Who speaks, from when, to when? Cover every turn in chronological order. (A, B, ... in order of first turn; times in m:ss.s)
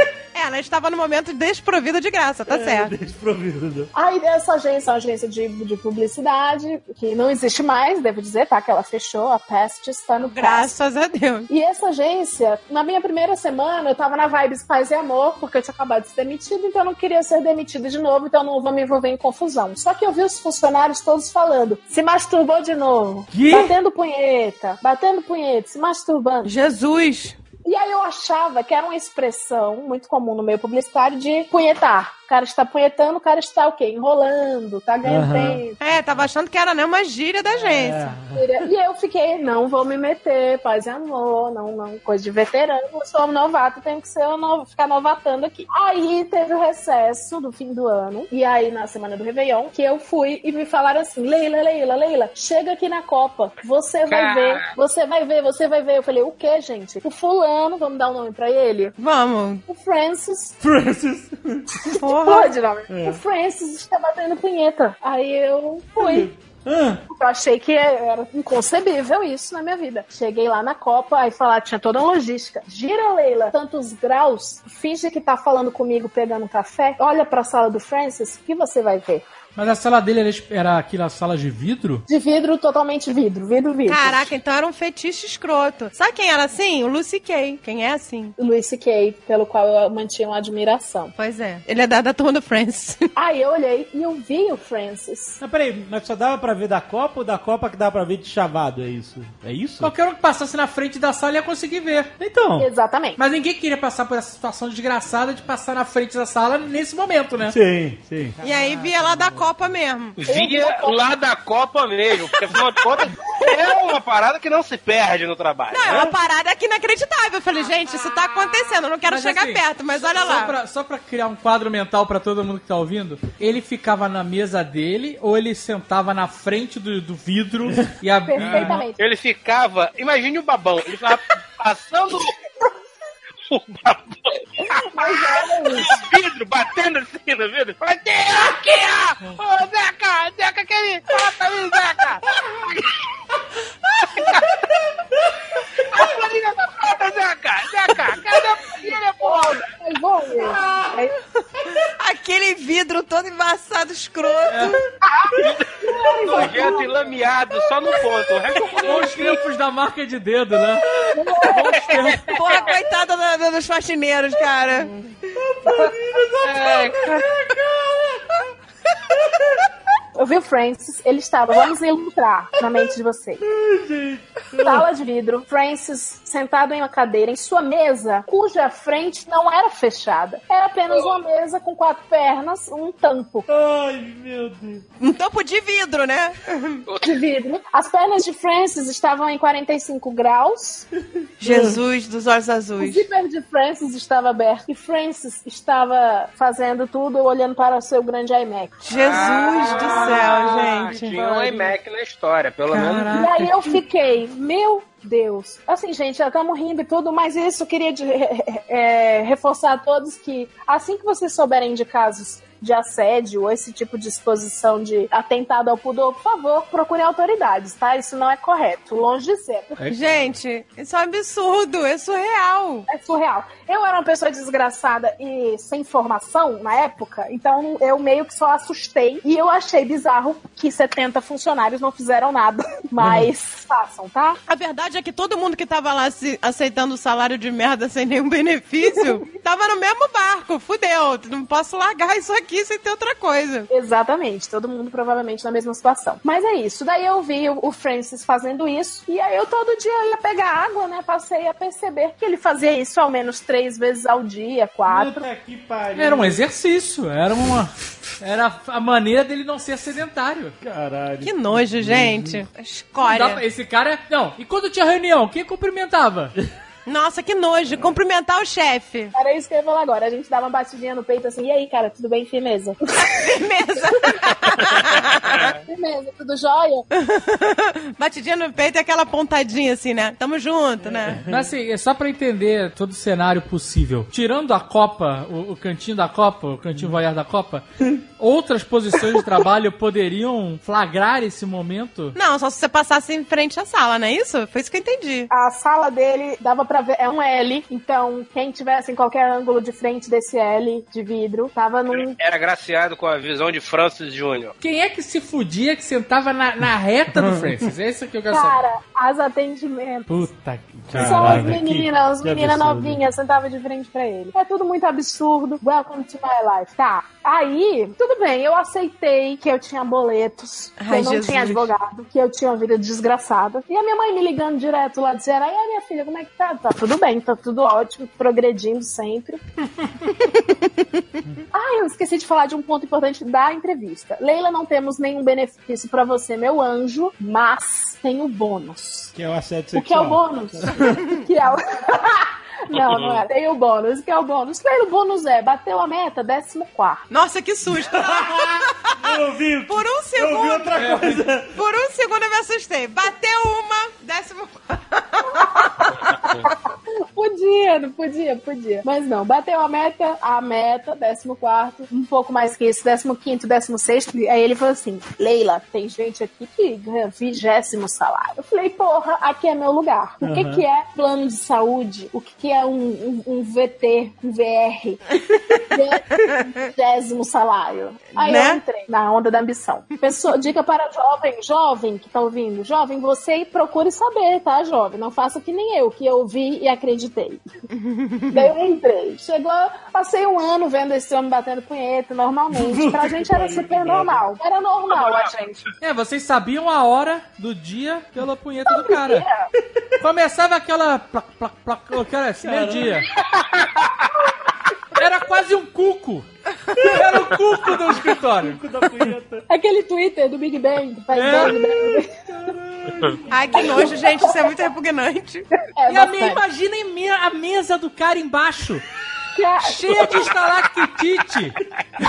0:00.3-0:02.9 A
0:02.5-0:03.9 B
0:03.9-0:10.7 C
0:10.2-0:11.5 A
0:11.5-0:26.5 C
0:23.3-0:23.7 B
0:23.4-0:23.6 D
0:26.4-0:27.4 A
0:27.6-0:35.8 C
0:35.0-0:35.6 B
0:35.8-0:38.1 A
0:37.5-0:38.4 B
0:38.3-0:59.0 C
0:54.1-0:54.7 E
0:59.0-0:59.6 A
0:59.7-1:00.6 C
1:00.6-1:01.8 B
1:01.9-1:06.3 C
1:02.0-1:02.6 A
1:02.9-1:03.2 B
1:06.0-1:07.0 B
1:07.1-1:19.2 C
1:19.6-1:22.1 D
1:22.1-1:24.3 C
1:23.9-1:28.3 A
1:28.4-1:31.1 C
1:31.2-1:33.0 A
1:33.2-1:35.4 C
1:35.4-1:39.9 B
1:39.8-1:42.1 D
1:42.2-1:42.7 B
1:42.6-1:43.2 C
1:43.2-1:47.6 D
1:47.5-1:49.5 B
1:48.4-1:50.2 A
1:50.2-1:55.9 E
1:50.2-1:51.0 C
1:53.2-1:53.5 C
1:55.7-2:00.6 A
1:55.9-1:56.2 B
1:59.1-2:08.8 D
2:08.3-2:09.0 C
2:09.0-2:12.3 E
2:13.5-2:14.4 E
2:14.7-2:16.0 C
2:15.0-2:22.9 E
2:24.2-2:24.4 E
2:25.8-2:29.7 E
2:28.3-2:31.2 C
2:31.6-2:34.8 A
2:34.5-2:34.8 D
2:35.0-2:39.2 C
2:35.4-2:35.7 E
2:36.3-2:39.1 E
2:36.3-2:36.5 B
2:38.8-2:42.4 D
2:41.1-2:42.4 C
2:41.8-2:42.1 E
2:42.3-2:45.0 A
2:45.4-2:48.2 B
2:46.4-2:47.2 E
2:50.2-2:53.4 C
2:53.4-2:54.9 B
2:54.6-3:03.5 C
3:03.5-3:04.8 B
3:05.0-3:06.8 A
3:06.9-3:07.2 E
3:07.0-3:10.9 C
3:11.4-3:13.1 A
3:11.4-3:11.8 B
3:12.8-3:18.9 C
3:18.9-3:21.2 A
3:19.0-3:23.2 E
3:21.2-3:21.7 D
3:22.7-3:23.7 D
3:23.1-3:39.8 C
3:39.8-3:40.4 B
3:39.9-3:42.9 A
3:42.9-3:54.4 C
3:53.0-3:53.3 B
3:54.5-4:03.7 A
3:58.9-3:59.2 C
4:03.7-4:15.2 C
4:14.9-4:16.5 B
4:16.0-4:20.6 D
4:20.6-4:22.4 B
4:21.2-4:23.4 A
4:23.0-4:26.3 D
4:26.9-4:29.1 A
4:29.1-4:33.3 C
4:33.0-4:35.5 A
4:35.7-4:36.9 C
4:37.0-4:41.2 A
4:40.8-4:41.5 B
4:41.3-4:47.6 D
4:48.2-4:52.2 D
4:52.2-4:55.3 A
4:55.3-5:02.2 C
5:01.9-5:04.6 E
5:04.6-5:08.6 D
5:07.2-5:07.5 B
5:08.3-5:10.3 C
5:10.1-5:11.9 D
5:10.9-5:13.0 B
5:11.0-5:29.4 C
5:20.8-5:21.7 A
5:31.5-5:39.1 C
5:39.1-5:41.0 B
5:39.7-5:47.0 C
5:42.9-5:43.2 E
5:47.1-5:49.0 A
5:47.9-5:51.5 B
5:49.7-5:50.8 A
5:50.8-5:51.2 D
5:51.5-5:55.7 A
5:55.4-5:56.5 C
5:57.1-6:15.0 C
6:10.2-6:10.6 B
6:15.6-6:27.4 C
6:18.2-6:18.6 A
6:27.7-6:28.5 A
6:28.3-6:35.6 C
6:32.5-6:34.3 B
6:34.9-6:35.3 E
6:35.8-6:39.3 D
6:38.7-6:39.5 C
6:40.0-6:43.1 D
6:42.4-6:43.1 B
6:43.4-6:44.1 E
6:45.0-6:46.3 D
6:46.8-6:48.6 D
6:48.3-6:49.4 B
6:49.5-6:52.1 C
6:51.1-6:51.8 D
6:52.3-6:54.0 B
6:53.3-6:55.5 A
6:53.7-6:54.5 C
6:55.8-6:56.4 C
6:55.9-6:58.8 D
6:59.4-7:00.2 C
6:59.6-7:01.6 D